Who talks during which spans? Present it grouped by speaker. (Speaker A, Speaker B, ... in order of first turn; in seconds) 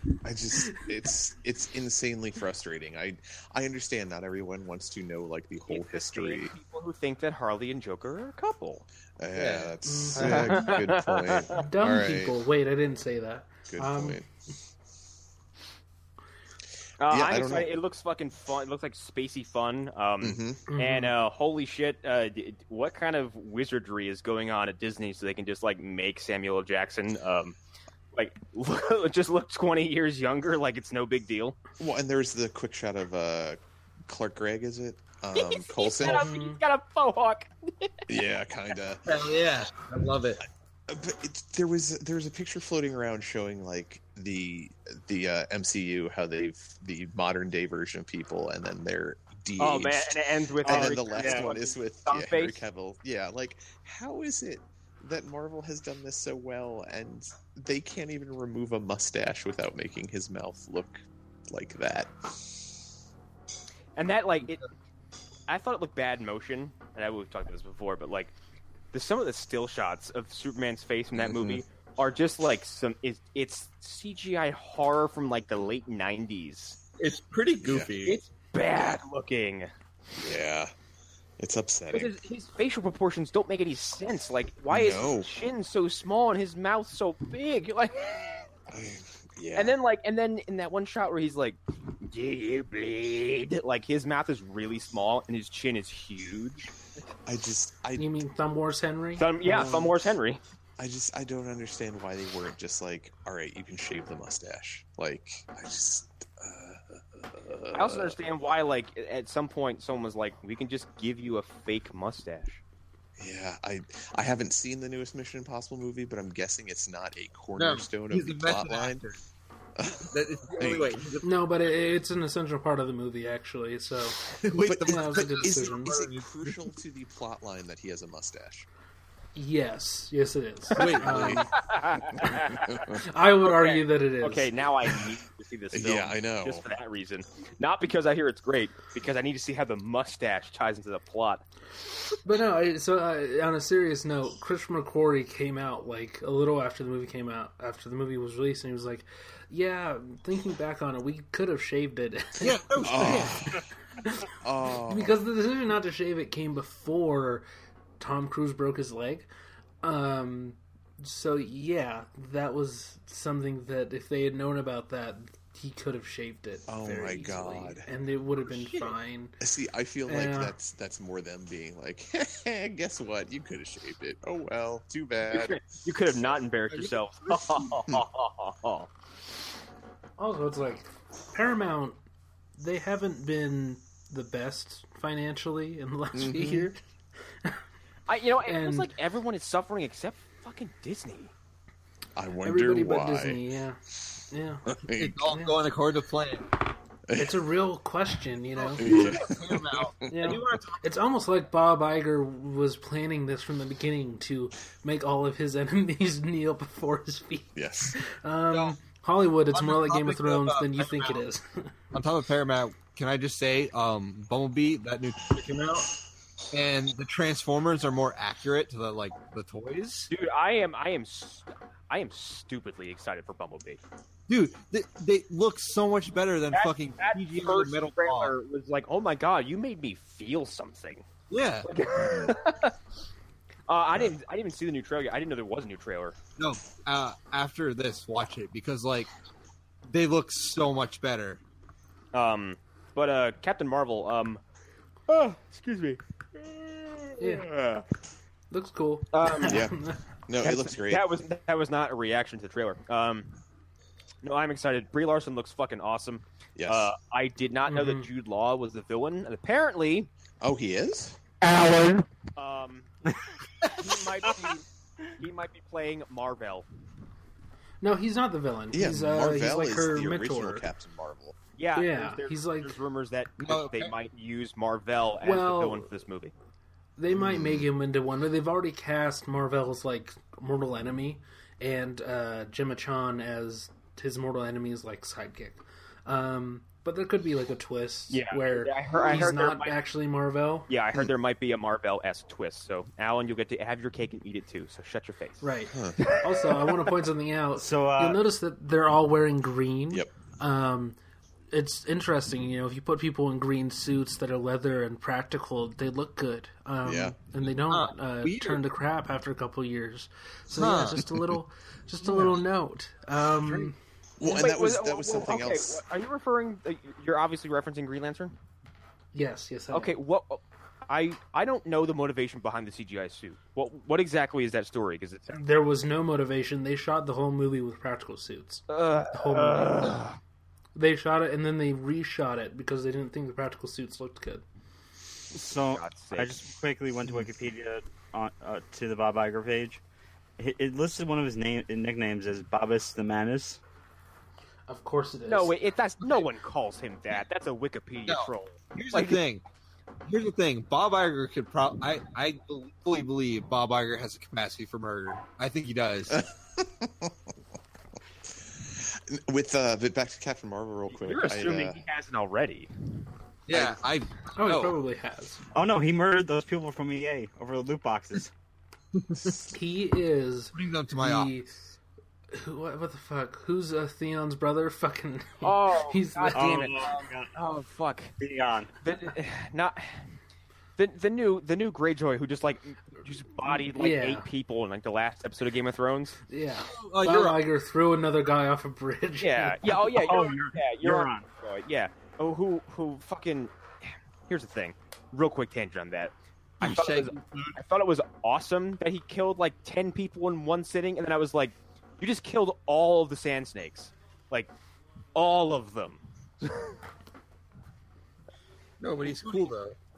Speaker A: 0.2-6.5, 9.2-12.4, 13.7-14.3, 17.1-17.7, 20.2-20.6, 31.8-36.3, 38.1-39.0, 40.9-62.8, 71.2-71.6, 77.6-77.9, 80.2-80.7, 81.4-82.1, 84.7-85.3, 88.7-89.8, 97.3-98.1, 100.8-108.2, 113.2-119.0, 119.8-121.0, 124.7-128.7, 130.8-131.5, 132.1-133.0, 135.7-136.7, 152.8-153.7, 154.4-155.2, 166.7-167.9, 169.4-175.6, 186.1-186.7, 192.2-193.4, 194.7-195.2, 197.1-197.4, 198.8-200.3, 207.6-208.0, 249.4-251.0, 256.6-256.9, 260.4-261.2, 268.7-271.4, 277.1-277.7, 295.7-296.0, 306.8-307.2, 314.2-315.8, 356.1-357.2, 358.5-361.8
Speaker B: 5.7-8.9, 10.2-11.6, 17.0-27.6, 28.1-31.6, 35.3-38.0, 49.6-52.6, 64.0-64.7, 65.5-68.3, 68.9-76.8, 78.0-79.7, 81.9-88.5, 89.5-96.7, 99.2-100.4, 107.7-112.6, 131.5-132.9, 133.4-141.4, 175.3-178.9, 188.1-191.3, 220.1-223.8, 226.5-231.1, 231.7-232.8, 233.7-236.2, 242.1-244.4, 245.1-247.9, 249.1-249.7, 250.4-253.4, 254.2-260.1, 261.4-262.9, 263.6-266.7, 271.6-276.3, 288.1-289.8, 290.7-295.4, 296.0-296.7, 314.2-318.4, 319.7-325.4, 328.7-330.2, 335.7-336.4, 345.3-349.2, 360.9-362.7, 375.4-378.1, 378.8-380.0, 380.8-386.2, 389.2-404.5, 405.1-406.7
Speaker C: 9.3-10.5, 39.1-40.4, 77.0-78.2, 117.6-119.2, 120.1-121.4, 124.3-126.6, 130.8-131.3, 152.4-153.5, 168.5-168.9, 176.7-177.7, 194.9-196.6, 198.6-200.8, 209.5-211.3, 211.9-215.9, 216.5-220.1, 224.3-228.3, 231.3-231.7, 236.4-239.1, 239.9-241.4, 263.6-263.9, 273.4-273.9, 307.7-308.6, 310.5-311.1, 313.4-313.7, 348.1-349.4, 350.1-356.2, 363.5-364.8, 369.0-369.3, 370.5-371.3, 386.7-387.4, 396.6-397.6, 408.8-409.8
Speaker D: 9.8-10.4, 11.5-14.2, 20.7-21.1, 36.0-36.6, 98.0-99.9, 121.2-124.2, 124.9-126.0, 129.3-131.5, 132.9-134.5, 142.2-153.4, 154.0-154.3, 154.9-157.4, 158.0-159.3, 159.8-169.4, 170.1-170.6, 180.2-182.0, 182.6-186.8, 188.4-188.9, 192.4-193.8, 194.3-194.7, 195.3-195.6, 197.2-199.0, 200.1-211.7, 247.2-247.5, 248.5-250.0, 257.7-258.1, 267.8-270.7, 271.8-272.8, 275.2-275.9, 277.0-290.7, 295.4-301.0, 301.5-313.8, 319.1-319.9, 325.3-330.0, 330.8-334.4, 344.7-345.5, 364.4-365.4, 369.5-371.5, 372.3-376.7, 383.7-384.3, 386.3-389.6
Speaker E: 50.7-51.5, 297.6-298.2, 335.3-339.8, 340.4-343.6, 365.5-368.3, 376.3-377.3, 378.2-378.7, 389.7-391.3